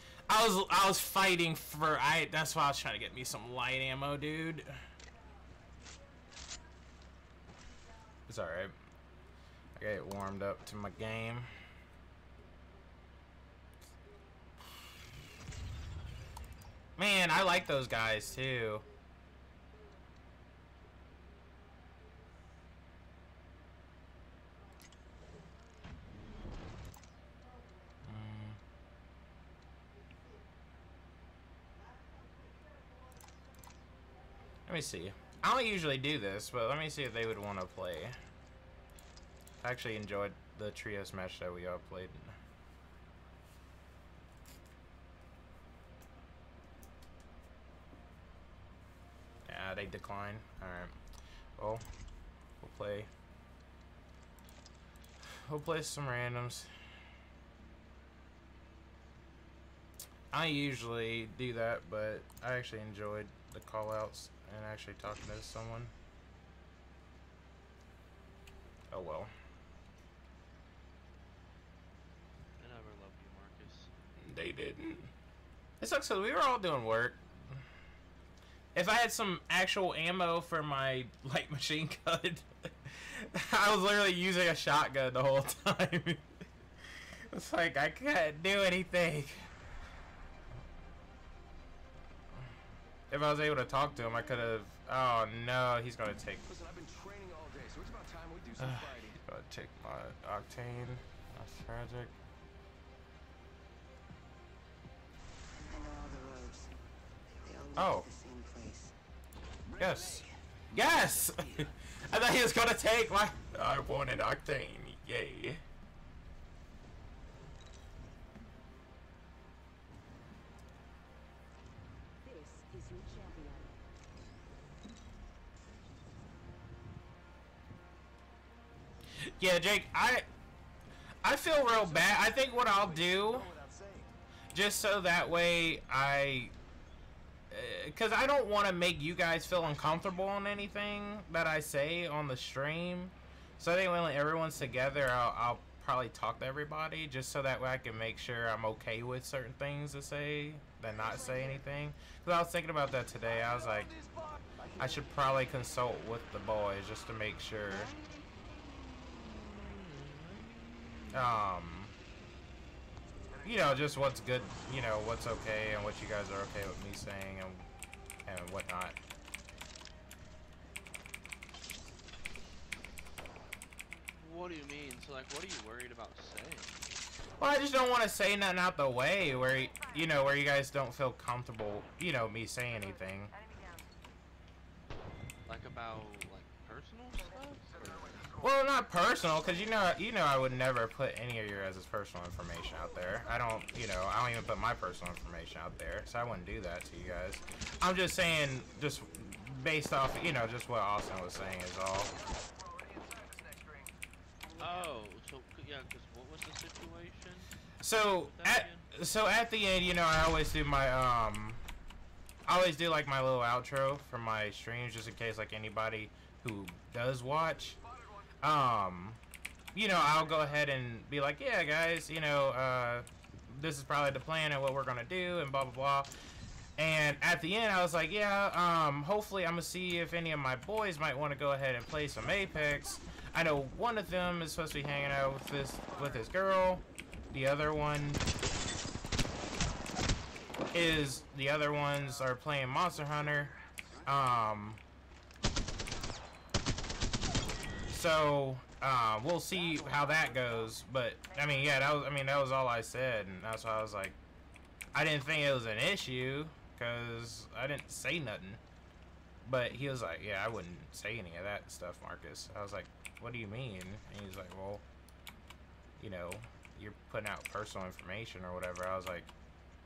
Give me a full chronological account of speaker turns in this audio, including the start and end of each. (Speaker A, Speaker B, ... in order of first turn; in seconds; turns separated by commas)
Speaker A: 0.3-4.7, Speaker A: 8.3-8.7, Speaker A: 9.8-11.5, Speaker A: 17.0-18.8, Speaker A: 28.1-28.6, Speaker A: 34.7-38.2, Speaker A: 39.6-42.3, Speaker A: 49.5-51.0, Speaker A: 51.6-51.8, Speaker A: 52.6-53.1, Speaker A: 55.2-56.7, Speaker A: 60.3-65.9, Speaker A: 68.9-69.3, Speaker B: 72.6-73.9, Speaker A: 74.2-75.1, Speaker A: 75.8-77.6, Speaker A: 78.7-86.3, Speaker A: 87.3-89.5, Speaker A: 93.1-96.4, Speaker C: 96.5-99.2, Speaker A: 98.6-102.1, Speaker D: 105.6-106.7, Speaker D: 107.4-108.9, Speaker A: 107.8-108.1, Speaker D: 109.6-111.7, Speaker A: 109.8-115.6, Speaker E: 122.2-123.8, Speaker A: 129.2-130.2, Speaker A: 131.2-133.5, Speaker D: 131.8-134.1, Speaker C: 132.0-132.8, Speaker A: 134.5-136.5, Speaker A: 137.5-153.9, Speaker D: 153.3-155.2, Speaker A: 154.8-157.9, Speaker A: 161.1-161.9, Speaker C: 163.3-164.3, Speaker A: 163.4-167.6, Speaker A: 168.2-169.0, Speaker B: 174.2-176.9, Speaker A: 177.4-183.3, Speaker E: 179.2-180.3, Speaker E: 182.6-183.9, Speaker B: 185.4-188.2, Speaker E: 187.2-187.6, Speaker C: 187.6-188.7, Speaker A: 188.4-202.1, Speaker C: 202.1-203.9, Speaker E: 204.4-204.9, Speaker B: 204.6-207.5, Speaker A: 207.8-211.6, Speaker B: 208.2-208.9, Speaker A: 212.4-217.8, Speaker C: 217.8-218.4, Speaker A: 218.4-219.2, Speaker A: 219.7-226.1, Speaker A: 226.8-238.2, Speaker C: 235.9-236.2, Speaker A: 240.7-243.5, Speaker C: 242.9-244.2, Speaker A: 244.1-244.8, Speaker A: 247.9-254.2, Speaker D: 249.5-250.8, Speaker E: 251.2-252.0, Speaker A: 254.9-258.6, Speaker A: 259.4-264.8, Speaker A: 266.0-269.3